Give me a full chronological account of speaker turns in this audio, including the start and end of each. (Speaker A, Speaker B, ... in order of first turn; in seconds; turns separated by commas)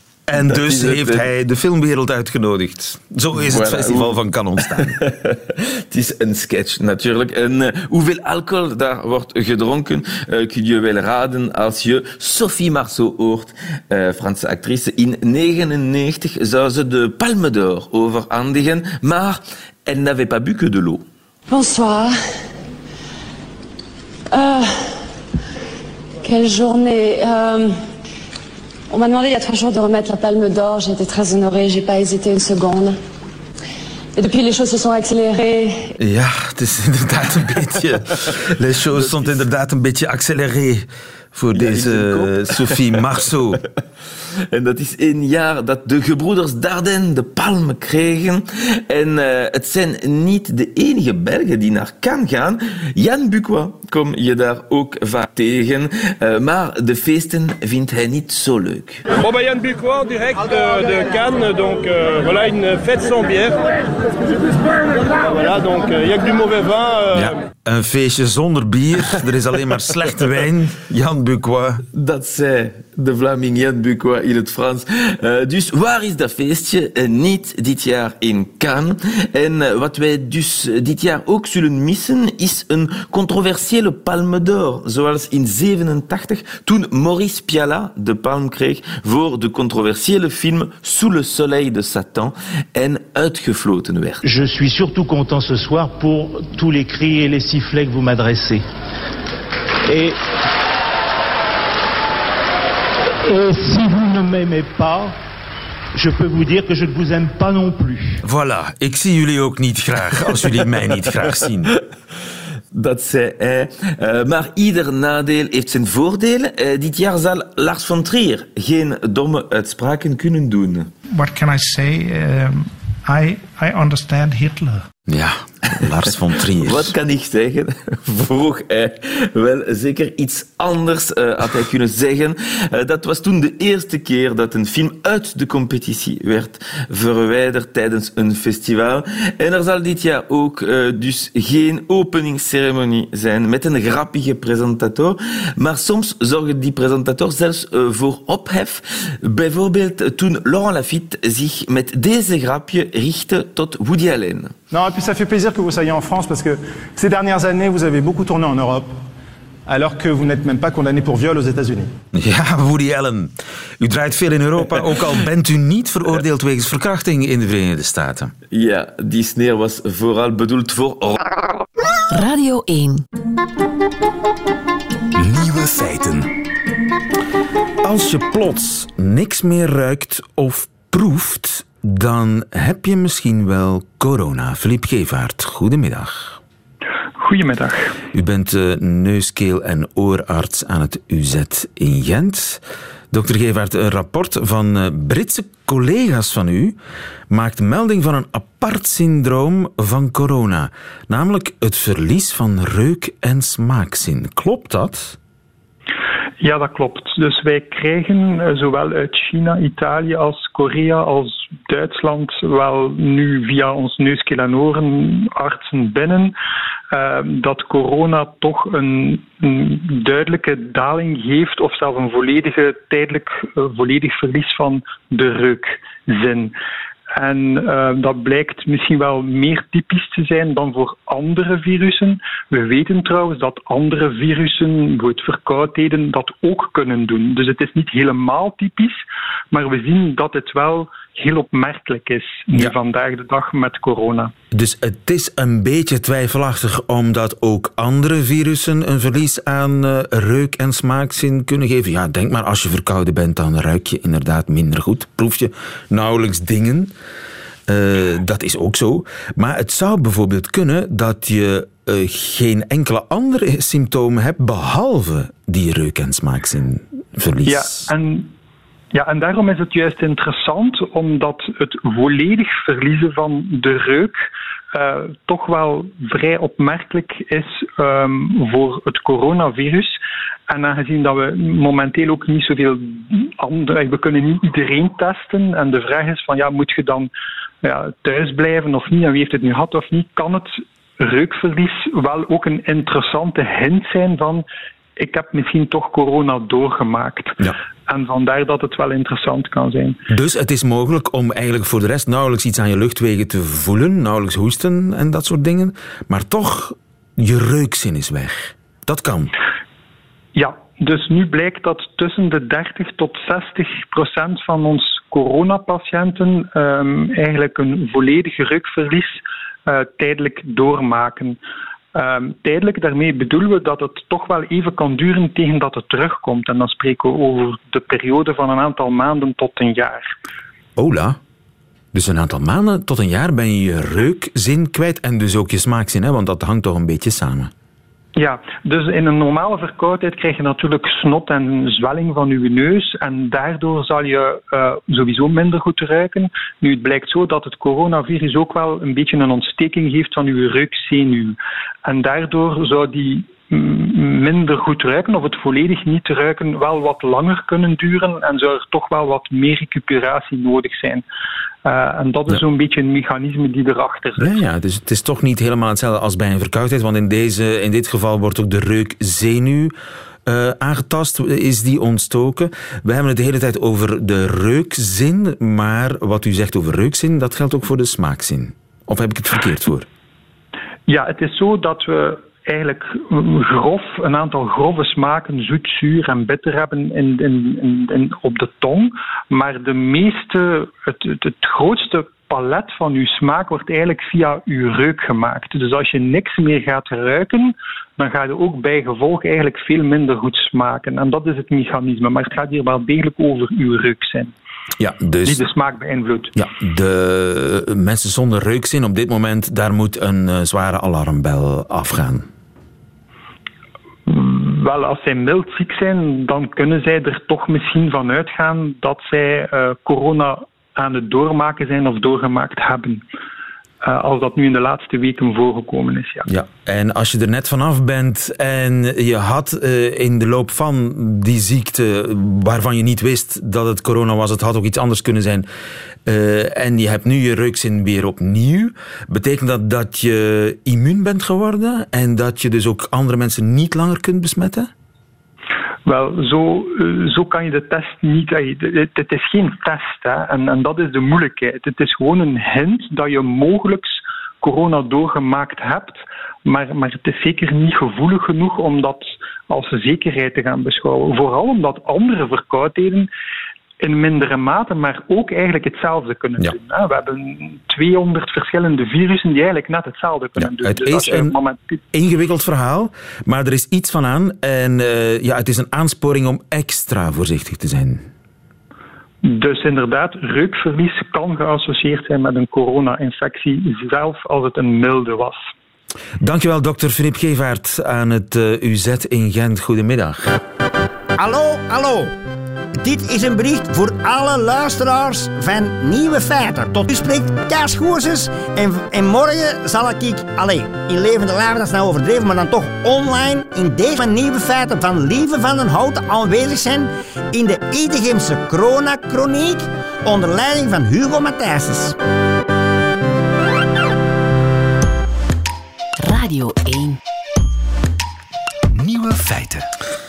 Speaker A: 0.3-5.0, Speaker B: 0.3-1.2, Speaker B: 3.4-21.0, Speaker C: 21.5-22.2, Speaker C: 24.3-24.9, Speaker C: 26.2-27.8, Speaker C: 28.9-33.0, Speaker C: 34.1-35.9, Speaker A: 36.0-43.6, Speaker B: 41.5-43.0, Speaker B: 44.5-59.0, Speaker D: 59.1-63.8, Speaker D: 64.7-67.3, Speaker A: 67.1-71.8, Speaker B: 71.9-94.2, Speaker E: 94.2-98.6, Speaker E: 99.9-100.2, Speaker E: 103.2-105.2, Speaker E: 105.9-108.2, Speaker A: 108.2-111.7, Speaker B: 112.7-120.9, Speaker F: 121.1-124.9, Speaker A: 125.1-126.9, Speaker B: 126.5-154.5, Speaker G: 154.7-158.9, Speaker G: 159.7-161.9, Speaker A: 162.1-168.3, Speaker B: 168.5-171.2, Speaker H: 172.1-173.0, Speaker A: 177.8-186.4, Speaker I: 187.2-187.9, Speaker A: 188.1-196.8, Speaker A: 197.3-205.2, Speaker I: 206.4-216.3, Speaker I: 216.9-226.5, Speaker I: 227.1-239.0, Speaker I: 239.5-244.3, Speaker A: 244.5-256.9, Speaker A: 257.7-267.9, Speaker I: 267.4-268.3, Speaker I: 268.9-287.1, Speaker I: 287.6-294.4, Speaker I: 295.0-300.0, Speaker A: 300.1-309.3, Speaker I: 310.4-321.4, Speaker I: 321.9-330.1, Speaker A: 330.8-331.2, Speaker A: 331.9-337.5, Speaker I: 338.1-361.1, Speaker I: 361.6-364.3, Speaker A: 364.2-369.7, Speaker A: 370.2-379.9, Speaker I: 380.9-404.3, Speaker A: 404.8-405.4, Speaker I: 405.2-406.3, Speaker A: 406.4-412.3, Speaker I: 414.1-423.0, Speaker I: 423.8-426.2, Speaker A: 426.3-435.5, Speaker A: 436.1-444.7, Speaker I: 445.9-463.1, Speaker I: 463.8-471.8, Speaker A: 470.4-471.3, Speaker A: 471.9-478.1, Speaker I: 479.2-485.4, Speaker A: 486.2-490.4, Speaker J: 491.2-492.1, Speaker J: 492.8-511.9, Speaker H: 516.0-517.0